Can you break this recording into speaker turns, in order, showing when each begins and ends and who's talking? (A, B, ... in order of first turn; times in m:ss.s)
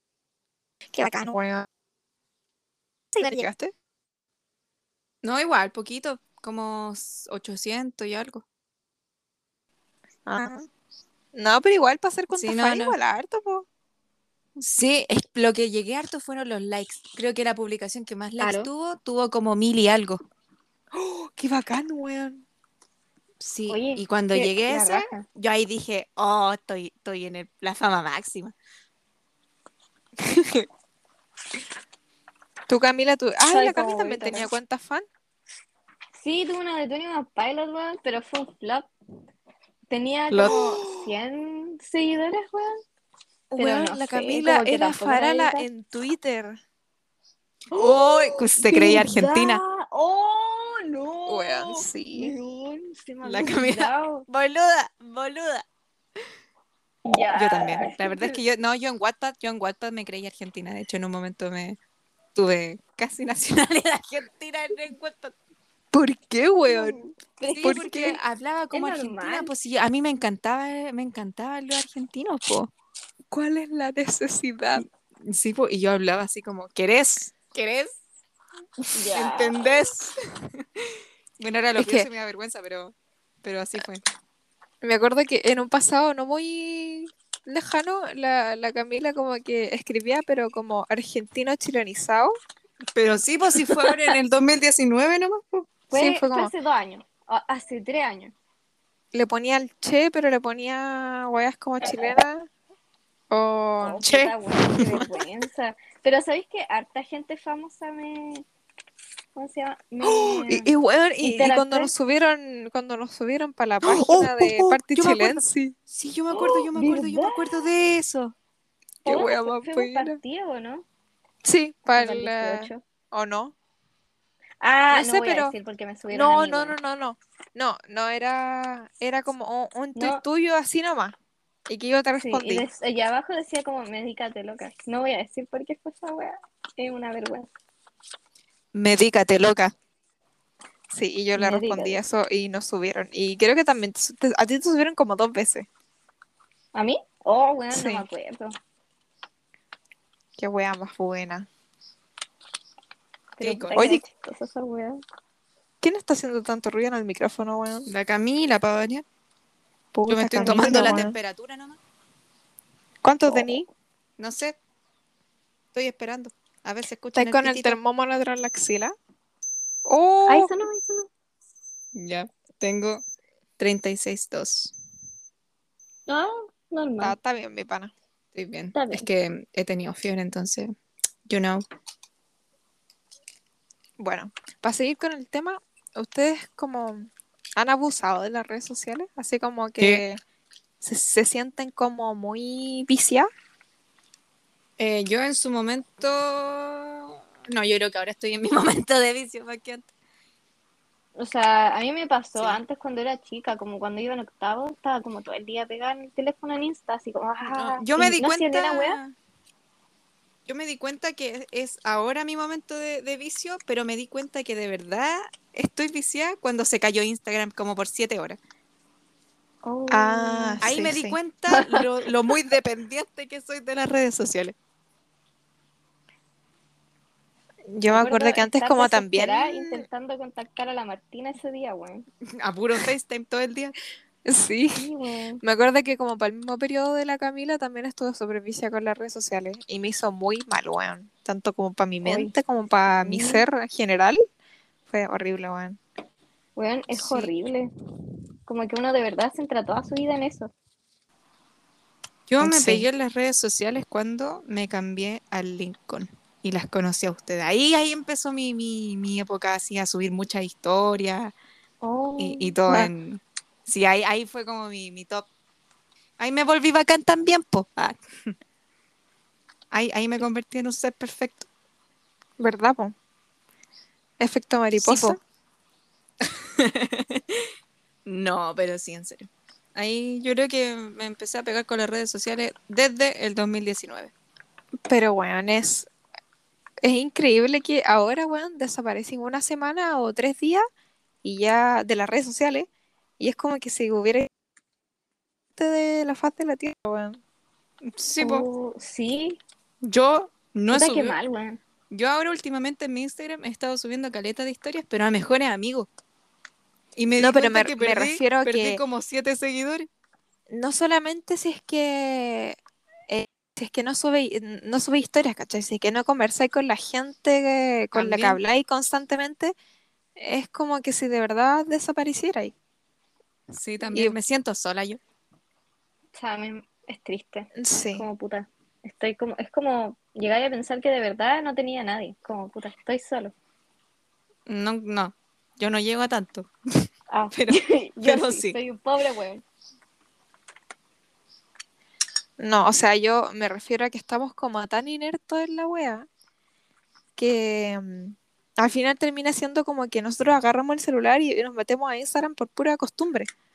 0:00.9-0:01.7 A
0:03.2-0:03.7 A
0:05.2-0:08.4 B
0:10.3-0:10.7 A
0:11.3-0:13.7 A
0:12.3-0:13.0 B
0:14.6-0:20.2 B
0:18.4-0:18.7 C
0:20.9-0:22.4 A
0:23.4-0:28.5 B
0:23.7-0:25.2 C
0:32.7-0:35.1 A
0:33.5-0:34.5 C
0:36.1-0:38.9 C
0:39.9-0:42.8 C
0:40.3-0:40.6 B
0:40.5-0:41.1 A
0:43.5-0:46.6 A
0:43.6-0:45.7 C
0:47.7-0:54.3 C
0:47.7-0:49.6 B
0:51.3-0:52.3 A
0:53.2-0:55.6 B
0:57.0-0:58.4 C
0:57.3-1:01.8 B
1:02.4-1:05.4 B
1:05.9-1:07.0 A
1:06.6-1:08.2 C
1:07.5-1:12.7 B
1:07.6-1:08.2 A
1:08.7-1:09.5 C
1:13.3-1:14.8 A
1:14.8-1:18.0 B
1:18.9-1:19.6 C
1:19.1-1:20.2 B
1:20.8-1:24.0 B
1:21.8-1:22.1 A
1:24.8-1:32.3 A
1:33.0-1:35.7 B
1:33.6-1:34.1 C
1:35.9-1:36.5 A
1:35.9-1:38.3 C
1:39.1-1:42.5 A
1:41.8-1:42.2 C
1:43.3-1:44.0 A
1:43.8-1:48.4 C
1:44.0-1:45.0 B
1:49.4-1:51.9 C
1:50.1-1:55.8 A
1:53.8-1:58.4 B
1:56.3-1:57.7 C
1:59.0-2:00.2 A
1:59.0-2:00.9 C
2:01.4-2:03.5 A
2:01.9-2:02.8 C
2:04.6-2:06.8 C
2:04.9-2:05.5 A
2:06.1-2:11.2 A
2:10.0-2:10.2 C
2:11.7-2:12.7 A
2:12.2-2:17.5 C
2:18.7-2:19.7 B
2:20.9-2:25.7 A
2:21.4-2:22.0 C
2:26.7-2:28.6 C
2:27.7-2:28.0 A
2:30.4-2:31.5 A
2:33.4-2:35.0 C
2:33.4-2:33.9 B
2:33.8-2:34.0 A
2:35.8-2:37.9 A
2:37.9-2:39.0 B
2:39.9-2:41.2 A
2:40.1-2:41.8 B
2:40.4-2:41.0 C
2:43.0-2:43.7 A
2:43.3-2:43.6 C
2:44.2-2:44.6 B
2:45.7-2:47.8 B
2:47.2-2:48.9 A
2:49.8-2:50.5 A
2:50.3-2:51.1 C
2:52.0-2:53.0 B
2:53.6-2:54.7 B
2:56.1-2:57.2 C
2:57.0-2:57.9 A
2:58.3-3:00.7 B
2:58.7-2:59.1 C
3:01.3-3:01.6 B
3:04.0-3:10.2 A
3:10.8-3:13.3 A
3:14.8-3:19.9 B
3:21.2-3:29.0 C
3:27.5-3:29.2 B
3:30.5-3:38.4 B
3:39.6-3:40.6 C
3:39.9-3:41.2 A
3:40.6-3:44.6 B
3:41.5-3:41.8 C
3:47.7-3:49.9 A
3:47.9-3:52.1 C
3:52.4-3:53.8 B
3:54.2-3:54.9 A
3:54.8-3:55.4 C
3:55.4-4:04.2 A
4:02.0-4:02.3 C
4:03.0-4:03.4 C
4:04.9-4:05.8 A
4:06.6-4:07.7 C
4:06.9-4:07.3 B
4:08.5-4:10.5 C
4:12.3-4:21.3 B
4:12.4-4:12.9 A
4:21.8-4:22.9 C
4:22.2-4:25.3 B
4:26.2-4:28.0 B
4:29.7-4:31.5 B
4:32.4-4:33.0 A
4:34.2-4:35.2 A
4:34.8-4:35.2 B
4:36.2-4:37.5 B
4:38.1-4:44.1 B
4:44.9-4:45.9 A
4:46.8-4:50.6 A
4:51.2-4:54.3 A
4:55.6-4:57.2 A
4:57.8-4:58.5 B
4:58.2-4:59.4 C
4:59.8-5:01.2 B
5:00.7-5:01.6 C
5:01.9-5:05.9 B
5:07.0-5:09.9 B
5:07.2-5:08.8 A
5:10.5-5:12.6 A
5:13.1-5:19.6 A
5:17.9-5:18.4 B
5:20.2-5:22.6 A
5:23.5-5:25.0 B
5:26.1-5:33.4 C
5:27.6-5:28.0 A
5:34.5-5:36.5 B
5:37.1-5:39.4 C
5:37.3-5:38.6 B
5:42.4-5:46.1 A
5:47.2-5:53.3 A